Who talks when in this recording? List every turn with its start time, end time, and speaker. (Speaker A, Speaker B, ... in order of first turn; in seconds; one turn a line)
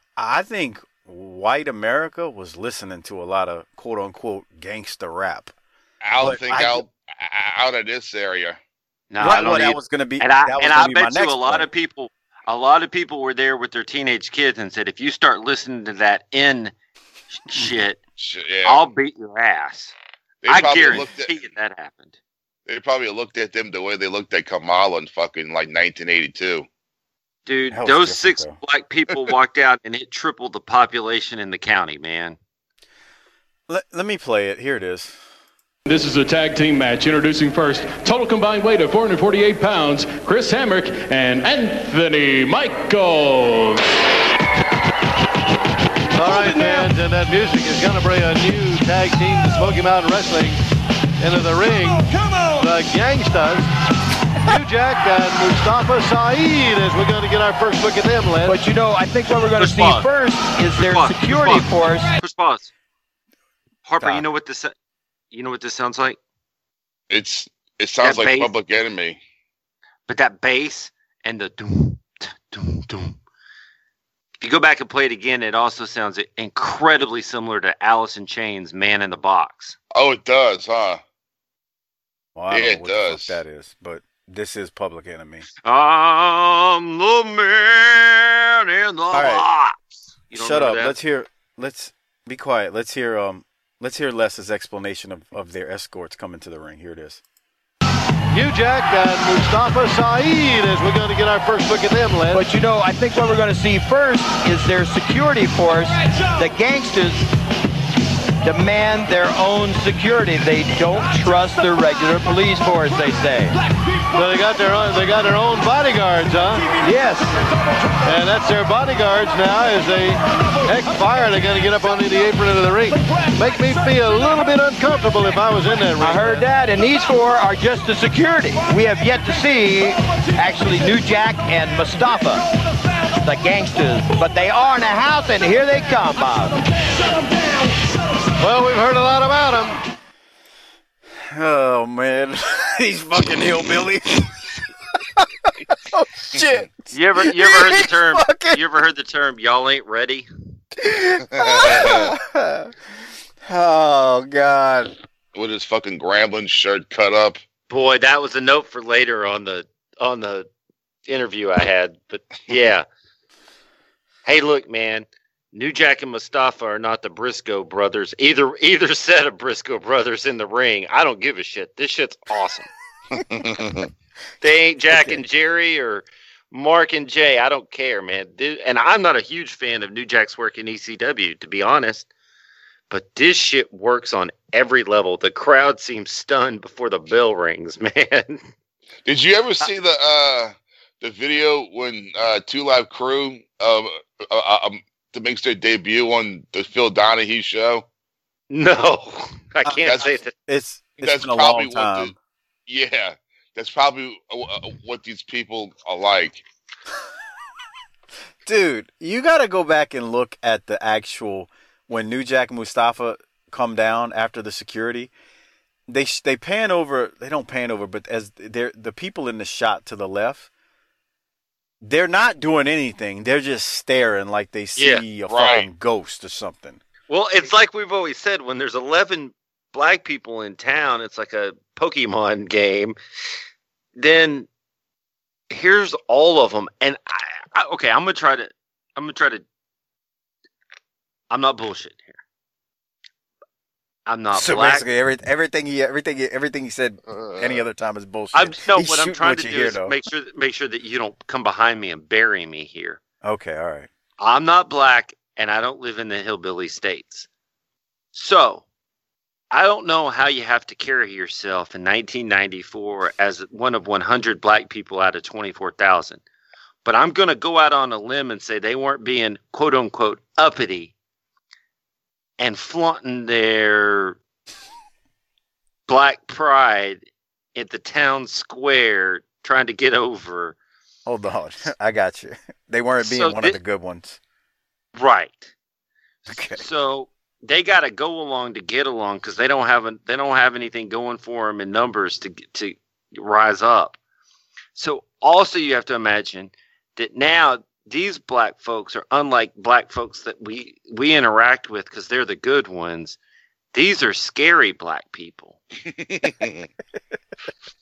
Speaker A: 0.2-5.5
Speaker B: 6.0-8.6
Speaker A: 6.2-6.8
Speaker C: 9.1-16.7
Speaker A: 9.2-11.7
Speaker C: 17.3-18.0
Speaker B: 18.2-18.9
Speaker C: 18.6-19.9
Speaker B: 20.4-21.3
Speaker C: 20.5-22.1
Speaker B: 22.7-26.7
Speaker C: 27.5-32.4
Speaker A: 27.7-28.6
Speaker A: 33.7-35.2
Speaker D: 35.9-43.9
Speaker E: 46.1-50.6
Speaker E: 51.2-53.7
Speaker E: 54.4-58.6
Speaker F: 58.5-62.1
Speaker C: 59.6-60.1
Speaker C: 60.8-62.7
Speaker C: 63.9-64.7
Speaker C: 65.3-66.2
Speaker B: 67.1-69.2
Speaker C: 68.0-68.5
Speaker C: 70.1-73.2
Speaker C: 74.4-79.8
Speaker B: 80.0-81.0
Speaker A: 82.4-85.5
Speaker B: 82.5-83.4
Speaker C: 85.6-89.8
Speaker A: 89.1-89.5
Speaker C: 90.3-91.0
Speaker A: 90.3-97.2
Speaker E: 98.3-102.4
Speaker F: 102.3-107.3
Speaker F: 108.4-113.5
Speaker E: 114.1-116.7
Speaker F: 116.8-117.3
Speaker E: 118.0-126.5
Speaker F: 126.0-132.4
Speaker F: 133.2-136.6
Speaker E: 138.4-139.8
Speaker A: 141.3-144.4
Speaker A: 145.2-148.6
Speaker C: 146.9-150.3
Speaker A: 150.8-152.7
Speaker B: 151.4-152.1
Speaker A: 153.5-155.0
Speaker B: 155.3-157.4
Speaker C: 157.7-160.5
Speaker C: 161.1-162.9
Speaker C: 164.3-172.7
Speaker B: 173.3-173.9
Speaker C: 174.4-182.1
Speaker A: 174.9-175.2
Speaker C: 182.9-188.5
Speaker B: 189.1-197.8
Speaker C: 198.5-200.3
Speaker A: 199.6-202.2
Speaker B: 199.8-200.1
Speaker B: 201.0-202.1
Speaker B: 202.7-206.4
Speaker A: 208.4-215.1
Speaker A: 215.9-220.5
Speaker A: 221.8-226.8
Speaker C: 224.8-225.0
Speaker B: 225.3-225.7
Speaker C: 227.1-233.0
Speaker C: 234.0-234.5
Speaker C: 235.5-239.4
Speaker C: 241.3-242.2
Speaker C: 244.1-244.9
Speaker A: 244.3-250.0
Speaker B: 247.1-247.6
Speaker C: 248.3-253.0
Speaker A: 253.2-253.9
Speaker C: 254.2-257.3
Speaker C: 258.1-258.6
Speaker C: 259.5-266.2
Speaker C: 266.9-270.9
Speaker C: 272.4-274.2
Speaker C: 275.9-277.0
Speaker C: 277.6-280.6
Speaker A: 281.1-284.2
Speaker C: 283.0-283.6
Speaker C: 284.9-285.5
Speaker C: 286.3-294.0
Speaker A: 286.3-286.6
Speaker C: 294.8-303.2
Speaker C: 303.7-305.6
Speaker B: 305.9-306.7